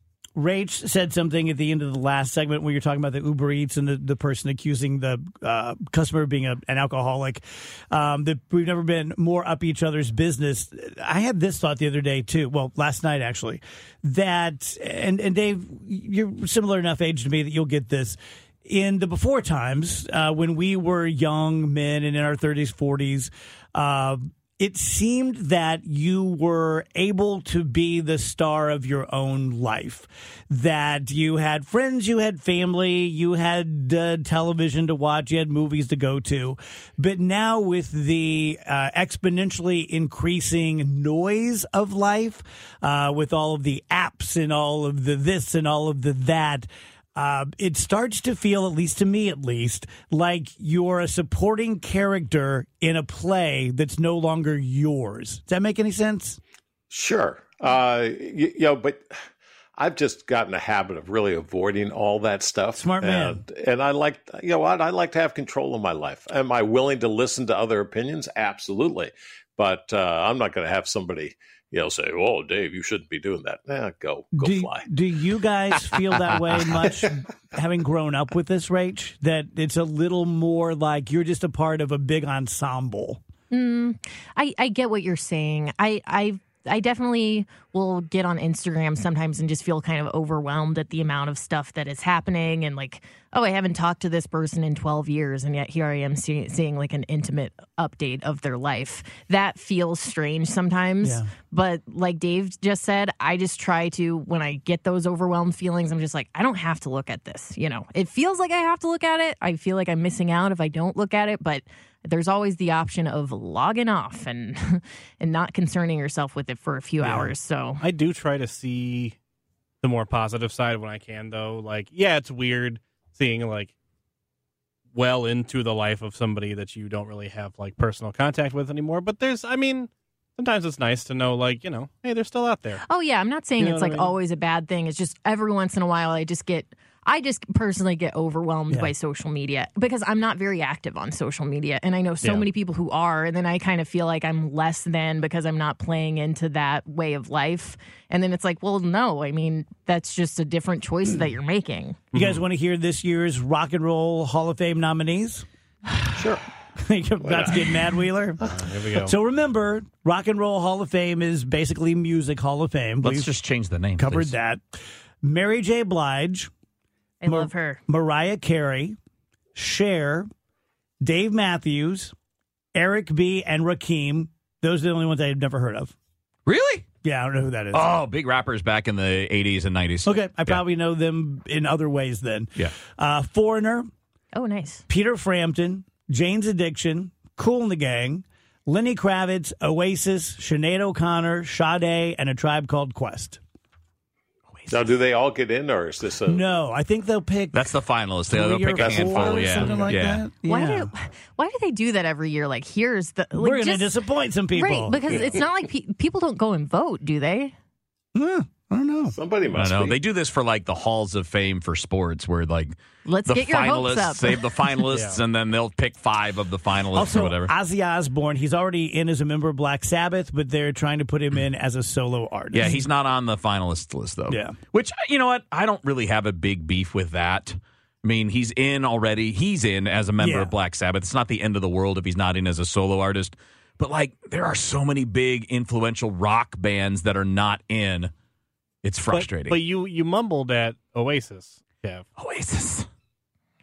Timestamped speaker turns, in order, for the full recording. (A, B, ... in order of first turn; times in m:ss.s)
0:00.3-0:56.4 A
0:56.9-0:59.1 B
0:59.8-1:14.9 B
1:02.7-1:03.4 A
1:14.3-1:23.2 A
1:23.5-1:57.8 C
1:41.0-1:41.3 A
1:57.0-1:57.3 D
1:57.8-1:59.2 D
1:59.8-2:03.7 D
2:04.9-2:12.8 D
2:12.9-2:32.0 C
2:13.6-2:14.1 D
2:32.1-2:32.4 D
2:32.1-2:43.3 A
2:36.2-2:36.4 B
2:37.2-2:37.7 B
2:38.5-2:39.1 D
2:43.0-2:44.3 E
2:44.0-2:46.5 A
2:47.2-2:47.8 C
2:47.2-2:49.0 A
2:49.5-2:50.3 A
2:51.0-2:52.1 A
2:52.7-2:55.9 A
2:56.4-2:56.9 E
2:57.0-2:57.9 A
2:57.7-3:00.6 E
3:00.0-3:03.9 A
3:04.3-3:04.8 C
3:04.9-3:13.4 A
3:14.7-3:16.4 B
3:16.2-3:20.9 A
3:17.5-3:20.2 E
3:18.7-3:20.0 B
3:20.4-3:23.9 C
3:23.3-3:25.3 A
3:24.5-3:27.5 C
3:28.1-3:29.1 A
3:29.1-3:30.0 B
3:29.5-3:32.7 E
3:33.0-3:34.7 C
3:33.3-3:37.5 E
3:34.9-3:35.2 D
3:36.9-3:42.8 A
3:42.5-3:58.1 E
3:44.3-3:44.6 A
3:50.2-3:50.5 A
3:58.8-3:59.6 E
3:59.1-4:02.0 D
4:02.2-4:02.9 E